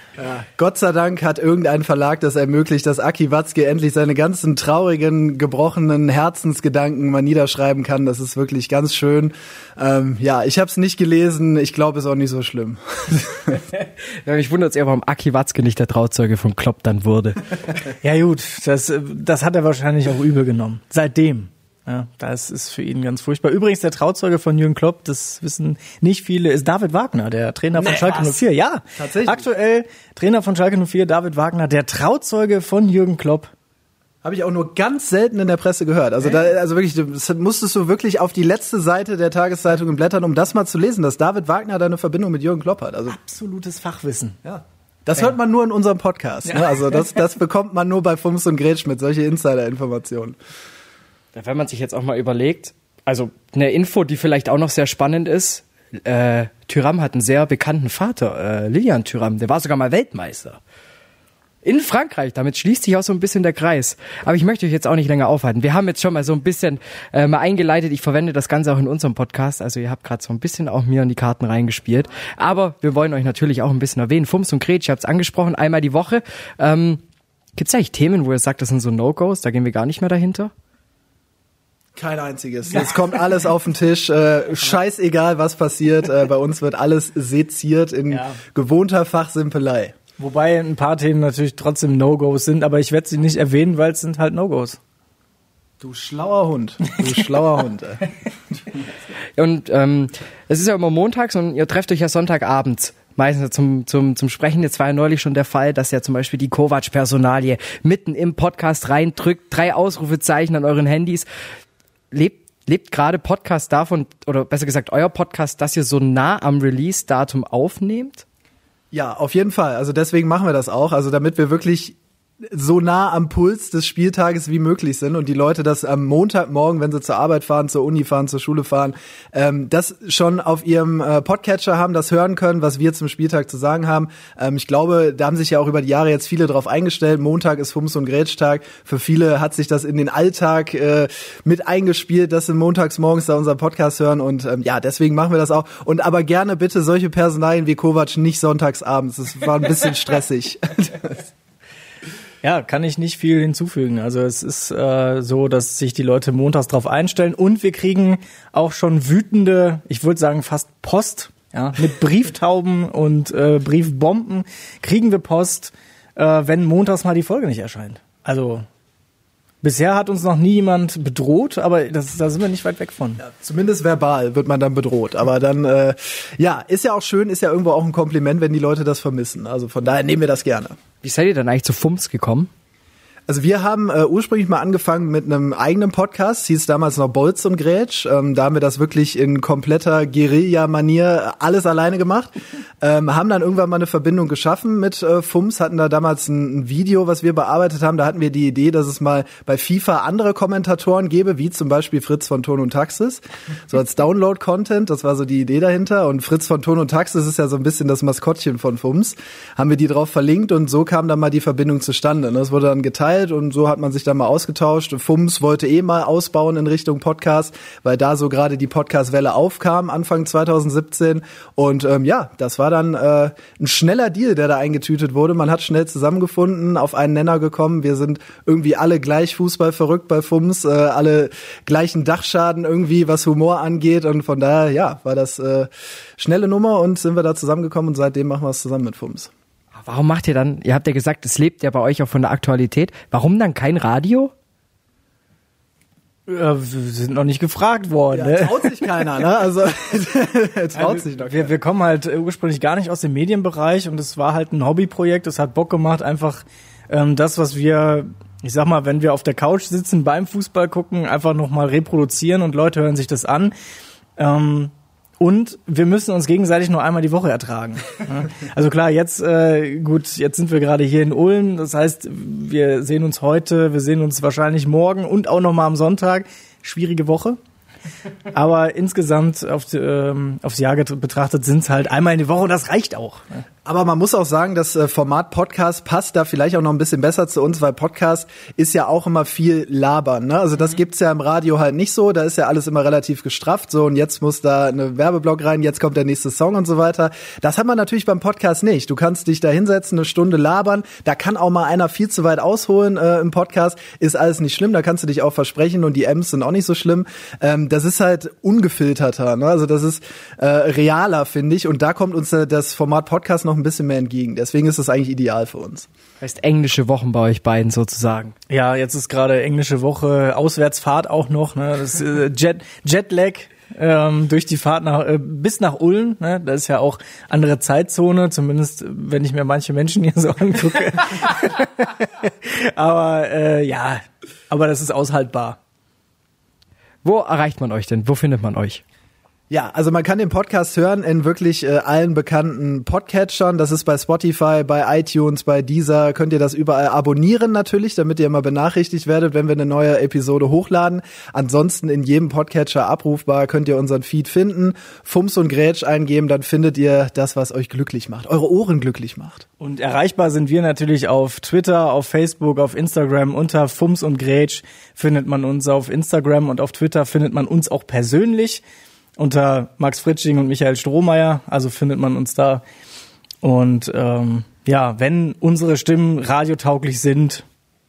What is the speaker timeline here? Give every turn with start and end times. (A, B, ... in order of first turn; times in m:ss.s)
0:00.2-0:13.6 A
0:14.2-0:17.5 B
0:18.0-0:33.5 C
0:27.8-0:28.4 A
0:29.0-0:29.5 A
0:34.2-0:43.2 A
0:43.1-0:44.4 C
0:44.4-0:50.4 A
0:51.3-1:00.6 B
1:01.6-1:17.0 B
1:17.6-1:20.5 B
1:22.0-1:29.9 A
1:28.1-1:28.4 C
1:30.2-1:34.8 C
1:35.8-1:38.0 A
1:39.4-1:51.3 B
1:52.1-1:58.2 B
1:58.9-2:02.0 A
2:02.5-2:31.2 A
2:32.4-2:48.7 C
2:49.6-2:53.2 C
2:53.2-3:00.8 A
3:01.0-3:02.5 B
3:03.3-3:59.3 A
3:59.7-4:04.3 B
4:06.3-4:08.9 C
4:08.1-4:11.5 A
4:10.7-4:23.5 C
4:24.2-4:37.4 C
4:38.3-4:43.4 C
4:43.6-5:15.9 A
5:16.2-5:18.3 B
5:18.5-5:35.6 C
5:37.0-5:38.8 B
5:39.5-5:59.4 A
5:59.6-6:08.6 C
6:09.2-6:12.6 C
6:13.4-6:17.4 C